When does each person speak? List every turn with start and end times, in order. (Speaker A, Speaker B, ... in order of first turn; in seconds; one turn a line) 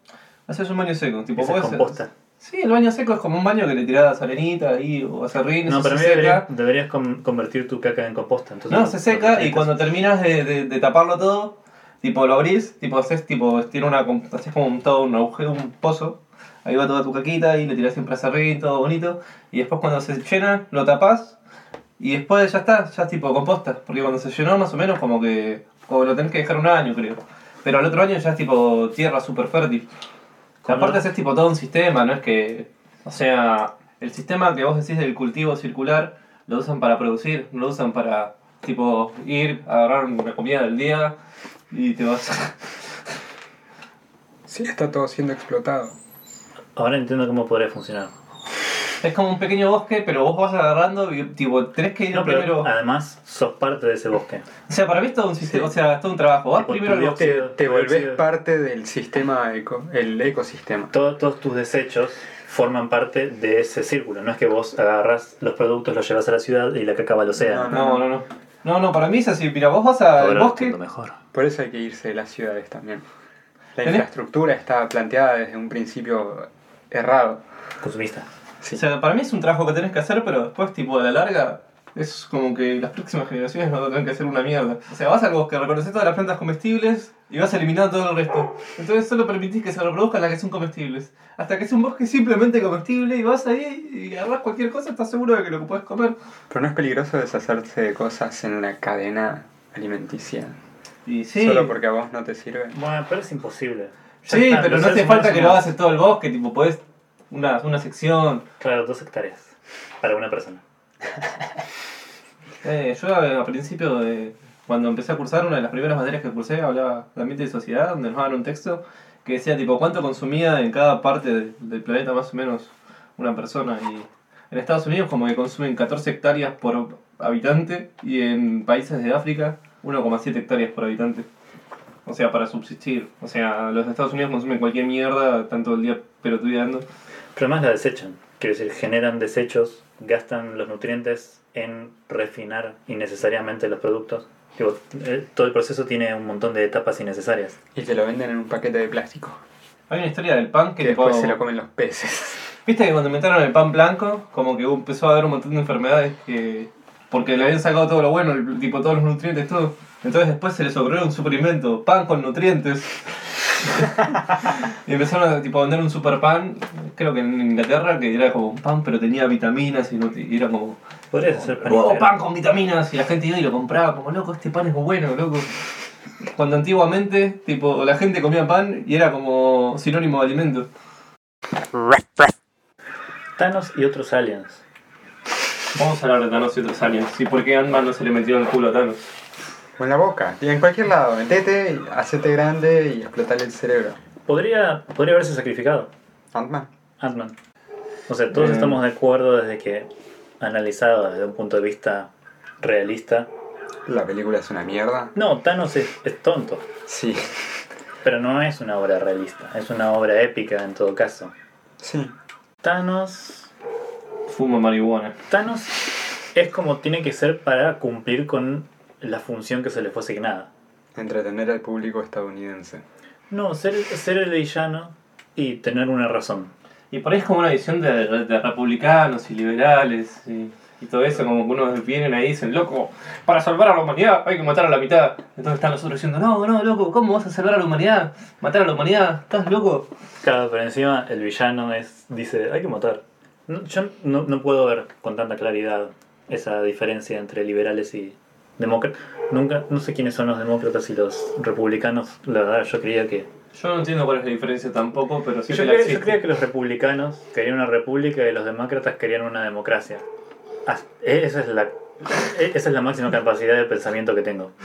Speaker A: 0.5-6.5
Speaker B: 1.4-2.1
Speaker B: 5.7-9.8
Speaker A: 8.7-21.4
Speaker A: 22.0-29.9
Speaker B: 30.6-31.0
Speaker A: 30.7-41.2
Speaker A: 41.7-42.6
Speaker C: 44.5-46.0
Speaker B: 46.8-48.1
Speaker A: 49.0-52.7
Speaker B: 52.1-54.5
Speaker A: 54.7-57.3
Speaker B: 56.6-58.2
Speaker C: 57.0-60.9
Speaker B: 60.9-67.7
Speaker C: 67.4-68.0
Speaker A: 67.7-70.8
Speaker B: 70.2-71.2
Speaker C: 71.3-73.0
Speaker C: 73.8-77.4
Speaker B: 77.8-78.3
Speaker A: 78.7-96.2
Speaker C: 96.5-100.6
Speaker A: 101.1-101.8
Speaker C: 101.3-102.8
Speaker B: 102.7-105.7
Speaker A: 104.2-108.5
Speaker B: 108.6-110.6
Speaker A: 112.6-131.3
Speaker A: 132.1-136.9
Speaker B: 137.3-147.6
Speaker C: 147.8-149.4
Speaker A: 149.9-151.4
Speaker C: 150.8-152.5
Speaker A: 152.7-170.8
Speaker B: 171.1-172.1
Speaker A: 171.3-175.5
Speaker A: 176.3-180.7
Speaker B: 183.4-184.6
Speaker A: 185.8-189.1
Speaker C: 189.8-194.0
Speaker B: 194.3-195.9
Speaker C: 196.3-196.7
Speaker B: 197.0-197.3
Speaker B: 198.1-199.9
Speaker A: 198.3-198.8
Speaker B: 200.4-202.1
Speaker B: 202.6-203.3
Speaker C: 203.9-205.1
Speaker B: 205.2-206.7
Speaker C: 206.8-207.6
Speaker B: 208.0-211.3
Speaker C: 211.8-212.1
Speaker B: 212.6-213.5
Speaker A: 214.3-215.2
Speaker B: 215.3-215.8
Speaker B: 216.3-220.5
Speaker C: 220.9-222.8
Speaker B: 223.3-226.5
Speaker A: 226.9-239.9
Speaker B: 240.2-253.3
Speaker A: 253.6-256.2
Speaker B: 255.5-260.1
Speaker B: 260.7-264.5